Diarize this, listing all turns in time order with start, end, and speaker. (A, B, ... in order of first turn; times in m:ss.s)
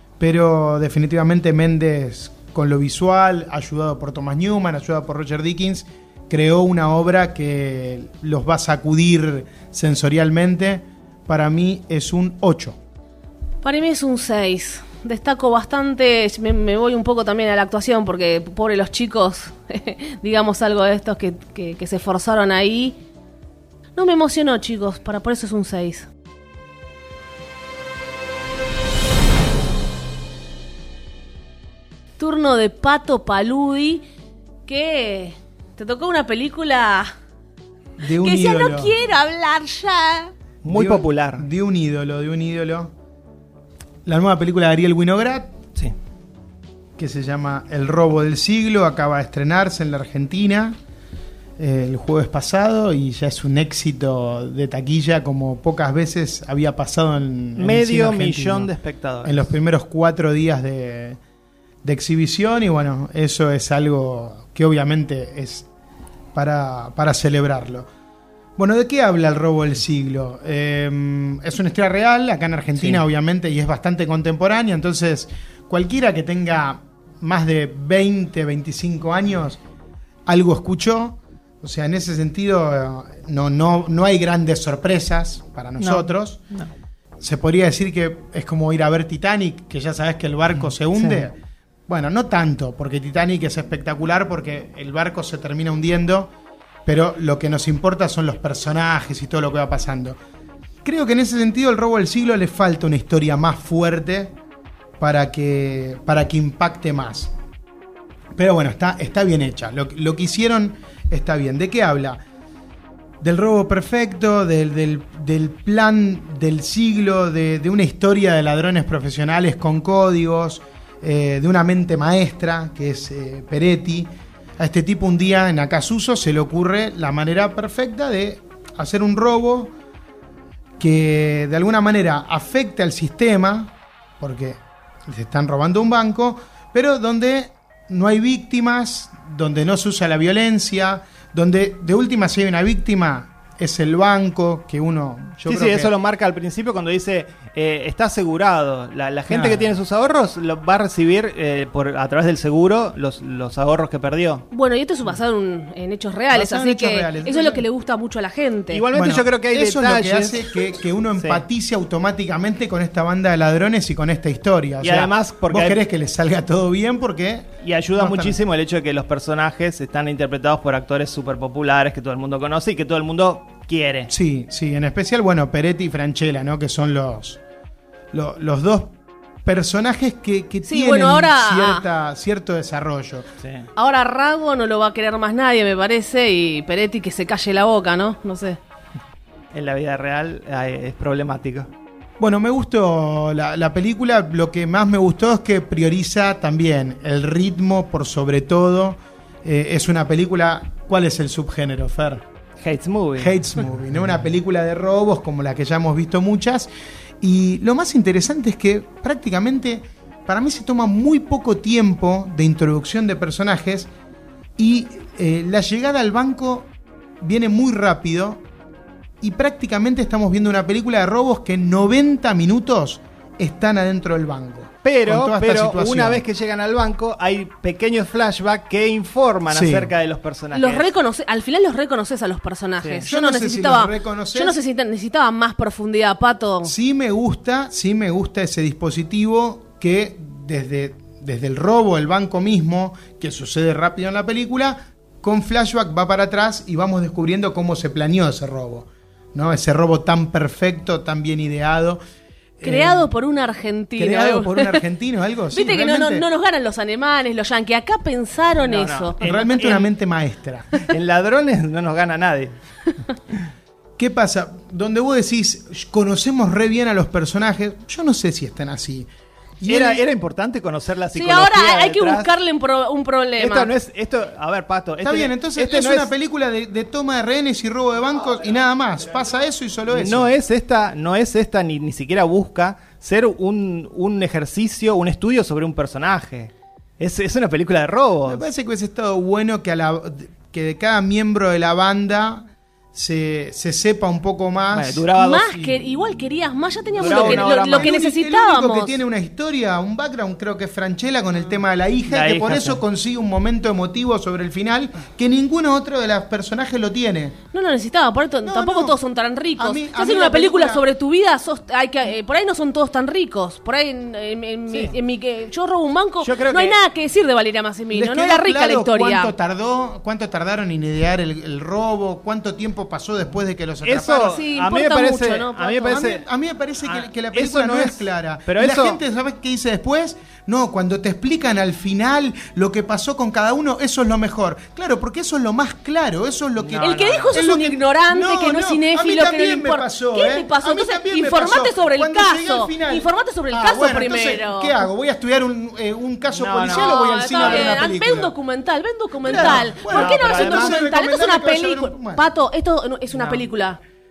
0:00.2-0:12.8 A
0:13.6-0:23.0 B
0:24.0-0:26.1 B
0:32.2-0:34.0 B
0:34.7-0:37.1 B
0:38.0-0:39.0 A
0:38.1-0:40.3 B
0:40.6-0:41.4 C
0:40.7-0:42.9 A
0:44.0-0:45.6 A
0:47.0-0:50.8 A
0:51.6-0:58.7 A
0:57.6-0:59.4 C
0:59.2-1:01.2 A
1:01.8-1:05.7 A
1:06.4-1:07.9 A
1:08.6-1:19.6 A
1:12.8-1:13.0 C
1:20.3-1:26.4 A
1:25.8-1:26.7 C
1:27.2-1:31.4 A
1:31.0-1:31.3 C
1:31.9-1:36.3 A
1:36.9-1:40.2 A
1:40.8-1:44.4 A
1:45.0-1:47.3 A
1:48.4-1:52.2 A
1:53.2-2:09.7 A
2:10.8-2:25.9 A
2:25.4-2:34.5 C
2:29.3-2:29.7 A
2:34.5-2:38.8 B
2:36.3-2:37.6 A
2:38.7-2:40.5 C
2:38.9-2:48.4 A
2:41.2-2:41.4 C
2:44.8-2:45.8 C
2:47.6-2:54.1 C
2:54.1-2:57.4 A
2:58.1-2:58.9 A
2:59.4-3:03.3 A
3:00.6-3:01.8 B
3:03.4-3:03.7 C
3:03.8-3:08.6 B
3:09.5-3:11.7 C
3:12.2-3:22.2 A
3:22.6-3:23.4 C
3:23.2-3:26.7 A
3:27.2-3:33.9 A
3:34.6-3:36.7 A
3:37.2-3:38.4 A
3:39.2-3:46.2 A
3:44.8-3:50.9 C
3:49.5-3:49.9 A
3:50.5-3:56.7 B
3:52.8-3:53.1 C
3:53.1-3:54.6 A
3:56.6-4:12.0 A
4:12.6-4:13.1 A
4:12.6-4:14.8 B
4:14.0-4:16.3 A
4:15.5-4:19.2 B
4:18.6-4:19.9 C
4:19.2-4:20.8 A
4:20.9-4:22.5 C
4:24.0-4:29.1 A
4:29.6-4:30.0 A
4:29.7-4:32.3 C
4:31.1-4:33.7 B
4:33.4-4:36.1 C
4:35.0-4:40.3 A
4:39.9-4:48.4 C
4:48.3-4:55.8 A
4:54.7-4:55.6 C
4:55.2-4:59.0 B
4:57.0-4:57.9 C
4:57.0-5:07.4 A
5:02.1-5:02.8 C
5:07.5-5:19.3 B
5:08.4-5:09.0 A
5:09.6-5:10.8 A
5:14.7-5:15.0 C
5:16.2-5:16.8 C
5:17.9-5:24.4 A
5:23.8-5:26.2 C
5:24.2-5:26.0 B
5:25.8-5:48.3 A
5:26.8-5:29.0 C
5:36.6-5:37.4 C
5:36.8-5:44.9 B
5:46.3-5:47.8 C
5:46.7-5:53.8 B
5:49.2-5:52.2 A
5:49.3-5:50.8 C
5:53.1-5:53.4 C